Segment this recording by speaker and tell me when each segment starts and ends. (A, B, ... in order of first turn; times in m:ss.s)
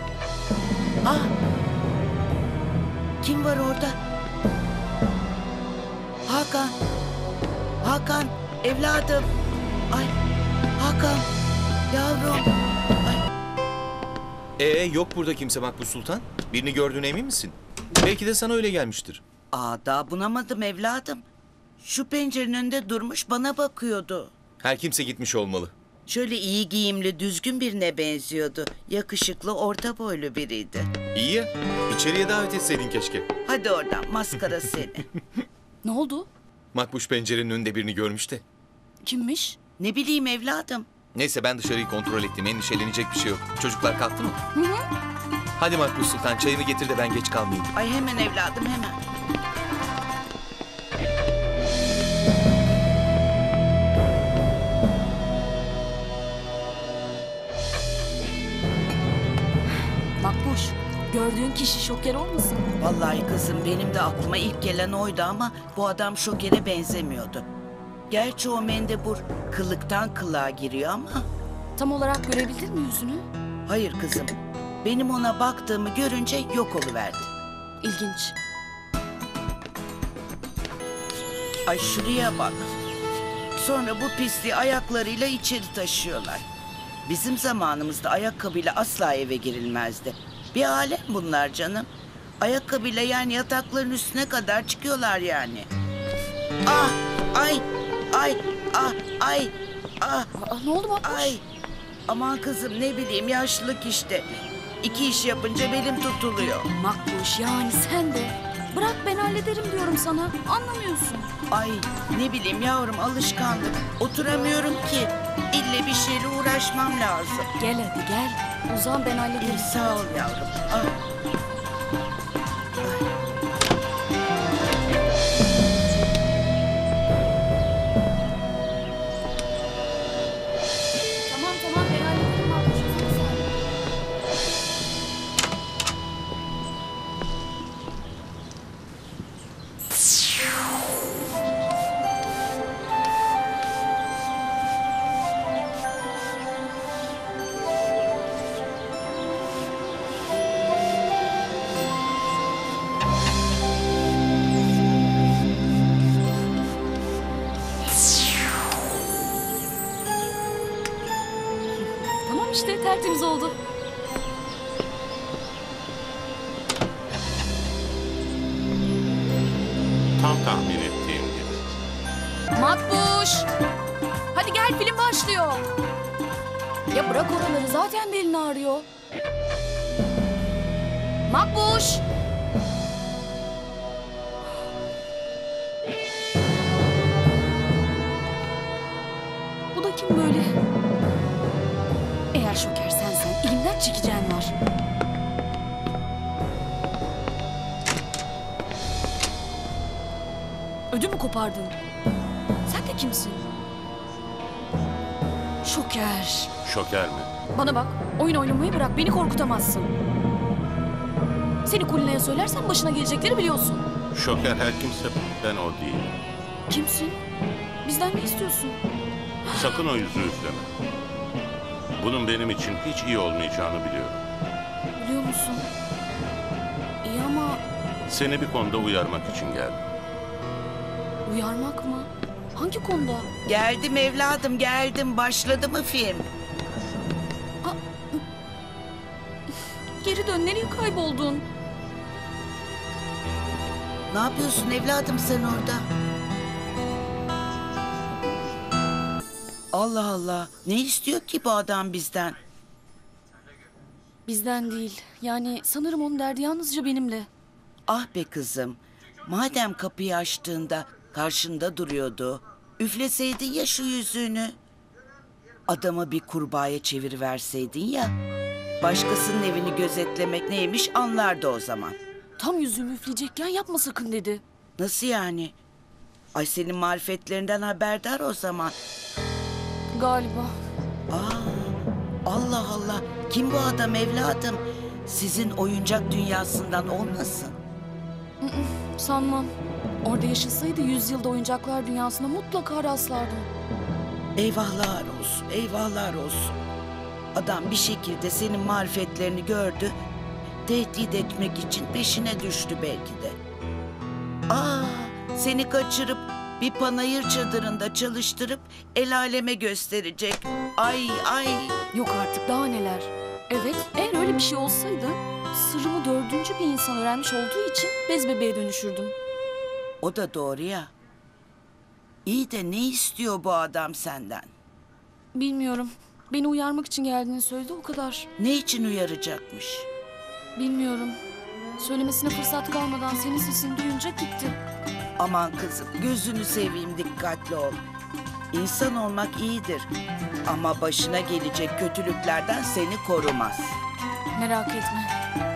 0:01.0-0:01.3 A
0:03.2-0:04.0 A
0:06.3-0:06.8 A
0:07.8-0:09.3 A
0:10.8-0:11.2 A
0:11.9-0:12.5 A
0:14.6-0:19.2 B
0:19.5-0:21.2 A
0:21.8-0:24.3 A
0:24.6-0:25.7 B
0:26.1-0:31.0 A
0:31.1-0:33.2 B
0:33.4-0:35.0 A
0:35.8-0:36.3 C
0:36.7-0:38.4 B
0:39.0-0:39.6 C
0:39.8-0:40.9 A
0:41.1-0:44.4 B
0:44.5-0:44.8 C
0:45.6-0:47.7 B
0:47.8-0:49.0 A
1:00.2-1:02.6 C
1:02.8-1:07.5 A
1:08.1-1:11.2 A
1:11.8-1:13.2 C
1:13.7-1:17.3 A
1:17.8-1:18.4 C
1:21.7-1:22.7 A
1:23.6-1:26.4 A
1:27.0-1:31.9 A
1:32.4-1:35.7 A
1:36.6-1:40.3 A
1:40.3-1:41.4 C
1:41.0-1:41.4 A
1:42.1-1:46.7 A
1:46.8-1:51.3 C
1:51.5-1:57.5 A
1:57.6-2:00.0 C
1:59.4-2:00.9 A
2:02.8-2:03.1 A
2:11.2-2:13.5 C
2:42.2-2:43.6 C
2:50.2-2:51.7 D
2:52.5-2:53.5 C
2:54.3-2:55.6 C
2:56.9-2:58.9 C
3:01.2-3:02.0 C
3:09.7-3:10.5 C
3:12.3-3:14.5 C
3:20.9-3:21.8 C
3:22.6-3:23.4 C
3:25.6-3:26.5 C
3:26.6-3:27.3 D
3:27.5-3:29.9 C
3:31.6-3:33.9 C
3:34.1-3:36.1 D
3:36.7-3:37.2 C
3:37.8-3:38.8 C
3:39.5-3:40.7 D
3:42.0-3:44.2 D
3:45.0-3:45.7 C
3:47.0-3:47.6 C
3:48.1-3:49.8 D
3:51.2-3:53.3 C
3:53.4-3:56.3 A
3:57.6-3:58.2 C
4:00.0-4:01.4 C
4:04.1-4:05.8 A
4:09.7-4:12.4 A
4:14.2-4:17.3 C
4:17.9-4:24.6 A
4:25.7-4:28.1 A
4:28.8-4:32.0 A
4:32.4-4:34.4 C
4:34.8-4:35.5 A
4:36.3-4:38.7 A
4:39.9-4:40.5 C
4:41.1-4:47.6 A
4:48.4-4:49.5 C
4:50.0-4:53.5 C
4:54.4-4:56.6 A
4:57.3-5:00.0 A
5:00.6-5:03.4 A
5:04.5-5:11.8 A
5:11.9-5:19.1 C
5:20.0-5:20.9 A
5:22.2-5:24.5 A
5:25.3-5:28.3 C
5:28.4-5:29.9 A
5:30.6-5:31.2 C
5:31.8-5:34.6 C
5:35.2-5:37.8 A
5:38.5-5:39.9 A
5:40.4-5:43.8 A
5:44.3-5:45.1 C